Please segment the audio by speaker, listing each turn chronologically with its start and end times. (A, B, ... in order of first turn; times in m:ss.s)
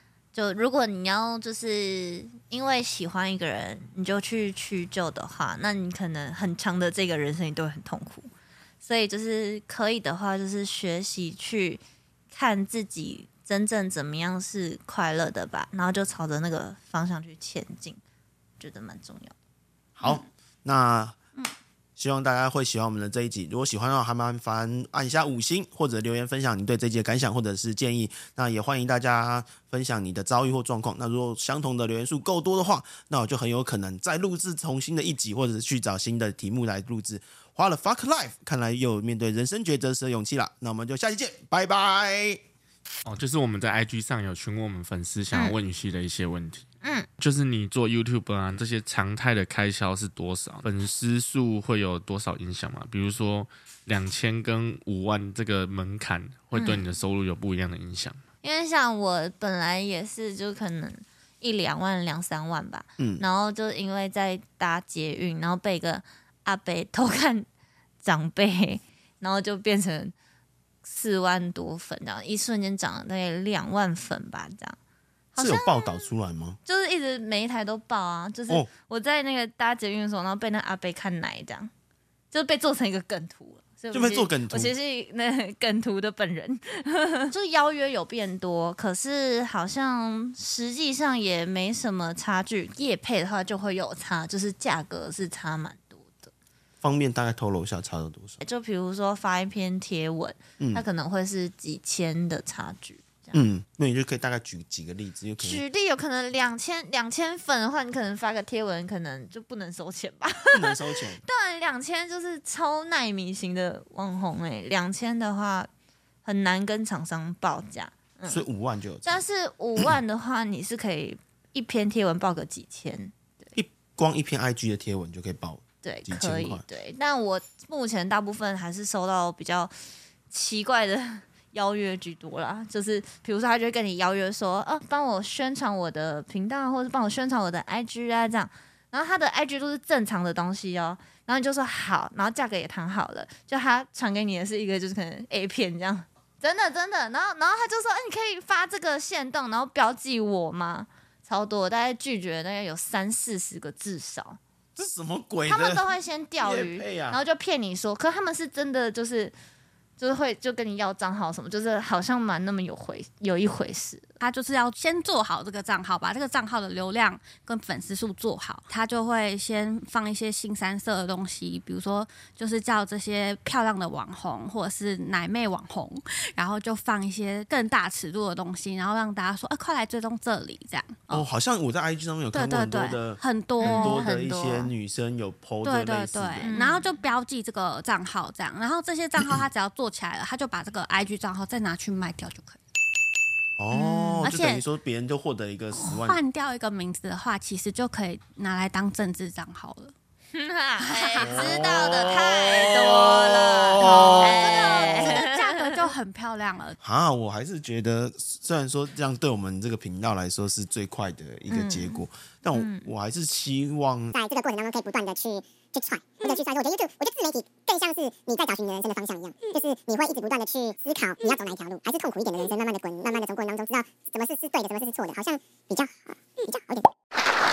0:00.3-0:08.3 A
0:08.8-0:18.0 A
0:18.6-0:19.3 A
0:20.0-0:21.2 B
0:22.0-0:42.4 B
0:43.0-0:46.6 C
0:46.8-0:47.1 A
0:47.2-0:58.2 C
0:56.5-0:56.8 A
0:58.4-1:07.5 A
1:03.0-1:03.2 B
1:08.0-1:10.1 A
1:10.8-1:14.8 A
1:15.4-1:16.1 A
1:15.4-1:16.6 B
1:16.7-1:21.7 A
1:22.3-1:36.3 A
1:23.9-1:24.7 B
1:36.8-1:38.4 B
1:38.4-1:43.4 A
1:40.6-1:40.8 B
1:43.3-1:45.6 B
1:45.4-1:55.7 A
1:50.5-1:51.2 B
1:56.2-1:58.4 A
1:58.3-1:59.2 B
1:59.0-2:03.5 A
2:03.6-2:06.6 B
2:05.8-2:09.7 A
2:10.3-2:34.4 A
2:34.8-2:37.2 B
2:35.5-2:39.3 A
2:40.0-2:44.2 A
2:44.2-3:01.0 D
3:01.1-3:06.5 B
3:02.3-3:04.1 D
3:03.6-3:04.7 A
3:05.6-3:12.6 D
3:06.4-3:06.9 A
3:13.6-3:16.2 B
3:13.7-3:14.3 A
3:14.2-3:14.6 D
3:15.8-3:19.9 D
3:20.3-3:25.8 A
3:20.8-3:21.9 D
3:21.2-3:25.2 B
3:23.8-3:26.8 D
3:26.8-3:34.2 B
3:31.5-3:32.9 A
3:34.1-3:46.9 E